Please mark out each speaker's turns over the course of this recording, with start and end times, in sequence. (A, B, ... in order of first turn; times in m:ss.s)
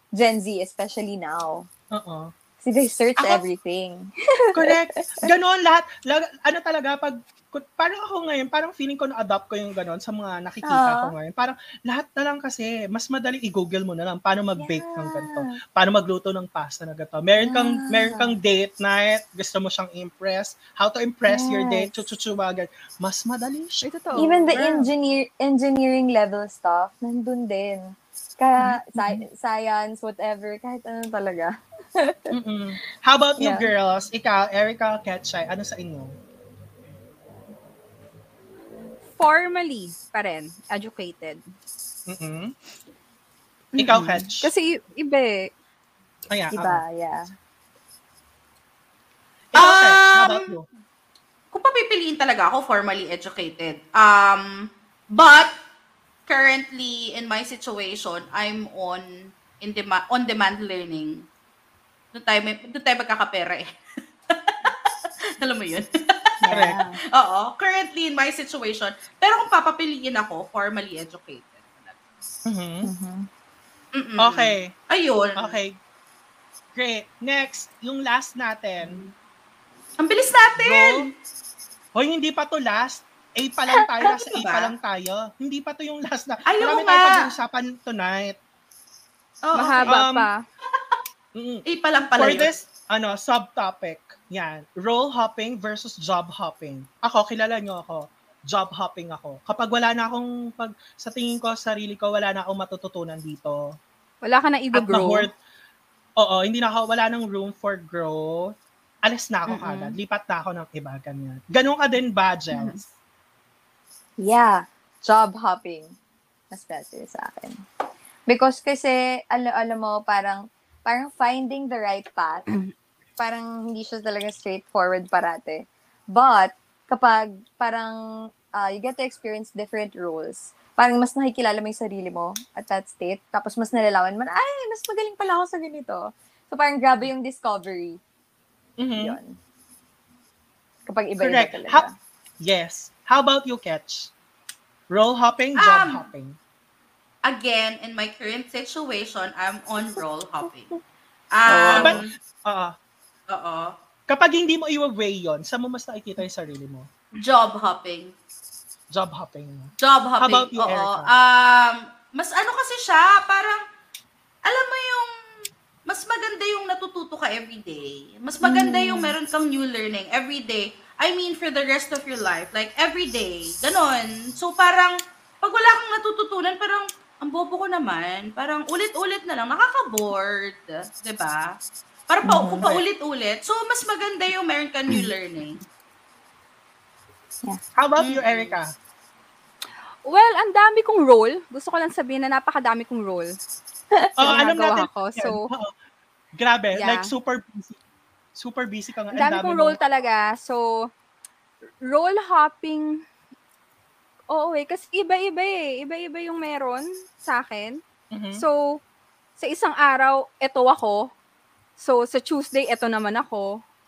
0:00.2-0:01.7 A
0:01.9-0:02.3 B
0:02.6-0:05.2 A
0:04.5-0:23.9 B
0:10.6-0:11.1 A
0:14.6-0:15.5 A
0:17.4-0:18.4 A
0:21.3-0:22.1 A
0:23.8-0:24.6 C
0:24.2-0:32.3 A
0:24.5-0:24.9 B
0:28.6-0:29.2 B
0:32.3-0:36.2 B
0:33.4-0:33.7 A
0:39.2-0:41.4 C
0:42.1-0:42.5 B
0:43.7-0:45.5 C
0:43.8-0:44.5 B
0:46.3-0:46.8 B
0:46.5-0:47.3 A
0:49.5-0:50.6 B
0:49.6-0:50.5 D
0:51.5-0:55.5 D
0:56.3-1:01.3 D
1:02.1-1:03.7 D
1:04.3-1:04.7 D
1:05.4-1:06.3 D
1:06.4-1:07.0 A
1:06.5-1:06.8 B
1:07.1-1:12.0 D
1:12.4-1:12.9 B
1:12.8-1:13.3 A
1:13.9-1:15.6 D
1:14.2-1:14.7 B
1:15.4-1:15.8 B
1:16.7-1:19.1 B
1:20.0-1:21.1 D
1:20.6-1:21.1 B
1:21.9-1:28.4 B
1:24.0-1:24.7 D
1:26.5-1:27.3 D
1:29.4-1:30.0 D
1:29.6-1:30.4 C
1:29.8-1:30.3 B
1:31.3-1:31.6 B
1:31.6-1:32.5 D
1:32.2-1:43.8 B
1:44.2-1:45.3 C
1:44.7-1:45.3 B
1:46.2-1:52.9 B
1:49.5-1:50.0 C
1:52.5-1:52.8 C
1:54.2-1:55.9 A
1:56.5-1:57.6 A
1:58.3-2:02.4 A
2:03.2-2:08.0 A
2:08.5-2:18.0 A
2:18.8-2:19.2 B
2:19.0-2:19.4 A
2:20.9-2:21.9 A
2:21.2-2:21.8 B
2:22.4-2:24.1 B
2:24.9-2:26.4 B
2:25.6-2:26.0 D
2:27.2-2:30.7 D
2:31.3-2:32.0 D
2:31.5-2:32.1 A
2:31.6-2:32.7 B
2:33.3-2:33.7 D
2:34.1-2:36.9 B
2:37.2-2:38.1 D
2:38.9-2:41.1 B
2:39.8-2:43.6 D
2:44.4-2:45.1 D
2:45.9-3:01.6 D
2:48.4-2:49.1 A
3:02.1-3:05.6 D
3:02.2-3:02.8 A
3:07.8-3:08.7 B
3:08.0-3:08.6 D
3:10.0-3:13.3 C
3:13.9-3:14.4 A
3:14.2-3:15.7 B
3:14.2-3:15.5 C
3:16.4-3:17.8 B
3:16.8-3:17.1 C
3:18.4-3:19.8 B
3:19.1-3:20.9 C
3:21.8-3:23.0 C
3:24.3-3:27.8 C
3:28.1-3:28.4 B
3:28.4-3:28.8 C
3:29.4-3:31.1 C
3:31.8-3:33.6 C